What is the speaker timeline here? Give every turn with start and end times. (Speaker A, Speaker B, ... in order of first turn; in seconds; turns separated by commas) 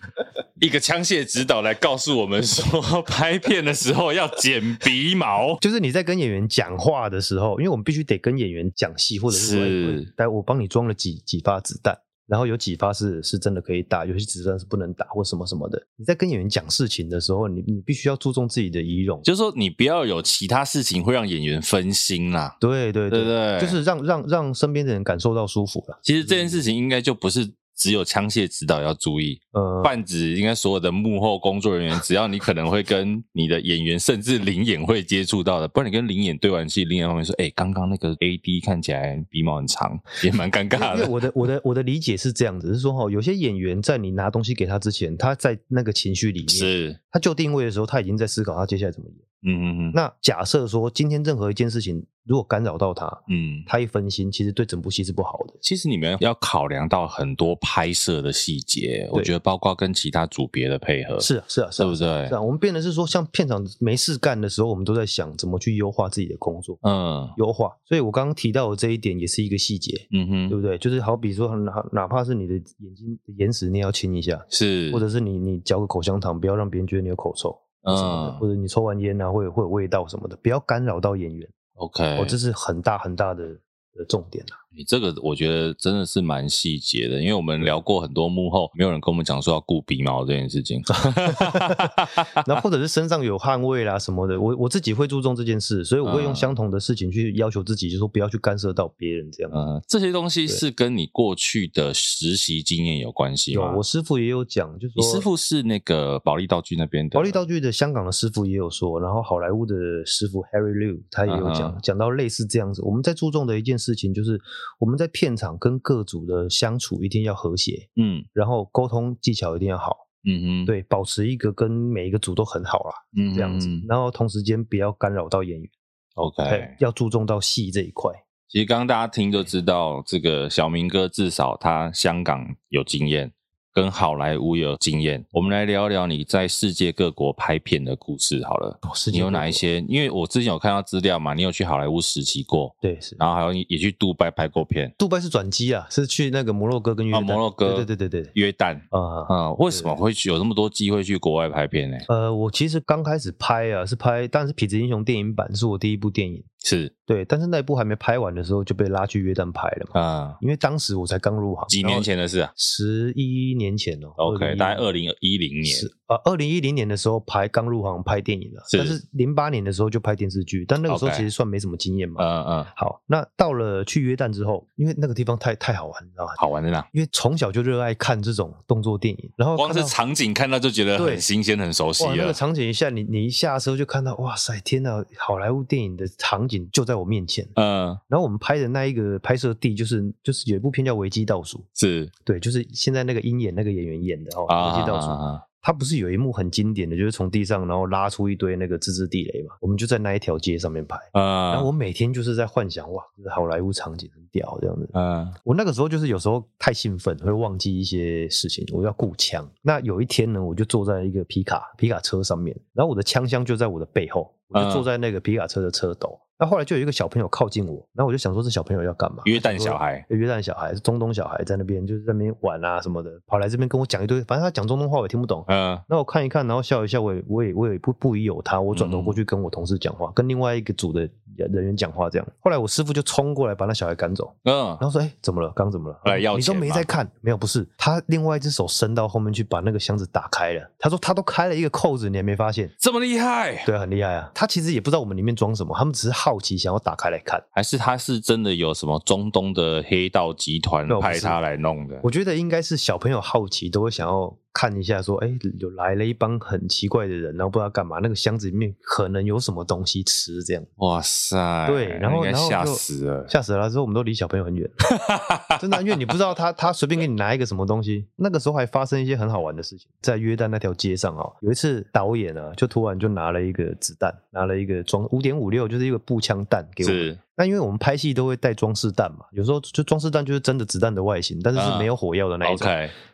Speaker A: 0.6-5.6, Speaker B: 5.6-19.2, Speaker A: 9.3-10.1, Speaker A: 19.2-22.6, Speaker B: 22.6-26.6, Speaker A: 23.1-23.8, Speaker A: 26.0-41.1, Speaker B: 29.5-29.9, Speaker B: 40.7-49.2, Speaker A: 46.5-47.0, Speaker A: 49.4-50.0, Speaker B: 49.9-55.6, Speaker A: 53.3-53.7, Speaker A: 55.6-62.3, Speaker B: 61.2-66.8, Speaker A: 66.8-67.4, Speaker B: 67.3-81.5, Speaker A: 70.1-70.6, Speaker A: 74.5-75.0, Speaker A: 77.8-78.4, Speaker A: 81.8-82.3, Speaker B: 82.2-84.6, Speaker A: 84.7-92.5, Speaker B: 91.1-99.5, Speaker A: 96.0-96.5, Speaker A: 99.5-103.8, Speaker B: 103.5-105.2, Speaker A: 105.0-107.4, Speaker B: 107.1-120.0, Speaker A: 111.3-111.8, Speaker A: 118.0-118.2, Speaker A: 120.2-120.7, Speaker B: 120.7-125.7, Speaker A: 123.1-123.9, Speaker A: 126.2-126.7, Speaker B: 126.4-128.2, Speaker A: 128.5-144.9, Speaker B: 138.8-139.6, Speaker B: 142.8-143.2, Speaker B: 145.0-148.3, Speaker A: 147.1-152.1, Speaker B: 148.9-150.0, Speaker B: 152.1-156.5, Speaker A: 156.6-156.9, Speaker B: 157.1-164.9, Speaker A: 159.9-160.4, Speaker A: 161.7-162.5, Speaker A: 164.2-165.9, Speaker B: 165.6-176.4, Speaker A: 168.7-169.0, Speaker A: 170.9-171.3, Speaker A: 172.2-172.7, Speaker A: 176.4-176.9, Speaker B: 176.9-179.9, Speaker A: 179.6-182.4, Speaker B: 180.9-181.3, Speaker B: 182.0-187.5, Speaker A: 187.6-188.0, Speaker B: 188.1-191.6, Speaker A: 191.8-192.1, Speaker B: 192.2-242.7, Speaker A: 194.5-195.4, Speaker A: 201.1-201.7, Speaker A: 204.9-205.3, Speaker A: 214.5-214.8, Speaker A: 219.2-220.0, Speaker A: 225.5-225.8, Speaker A: 228.7-229.2, Speaker A: 234.4-234.8, Speaker A: 236.0-236.9, Speaker A: 242.8-243.7, Speaker B: 243.6-247.4, Speaker A: 247.5-252.0, Speaker B: 250.9-251.4, Speaker B: 252.0-260.7, Speaker A: 260.8-263.3, Speaker B: 261.6-264.7, Speaker A: 264.9-265.6, Speaker B: 265.6-282.7, Speaker A: 276.8-277.2, Speaker A: 281.5-281.9, Speaker A: 282.4-282.9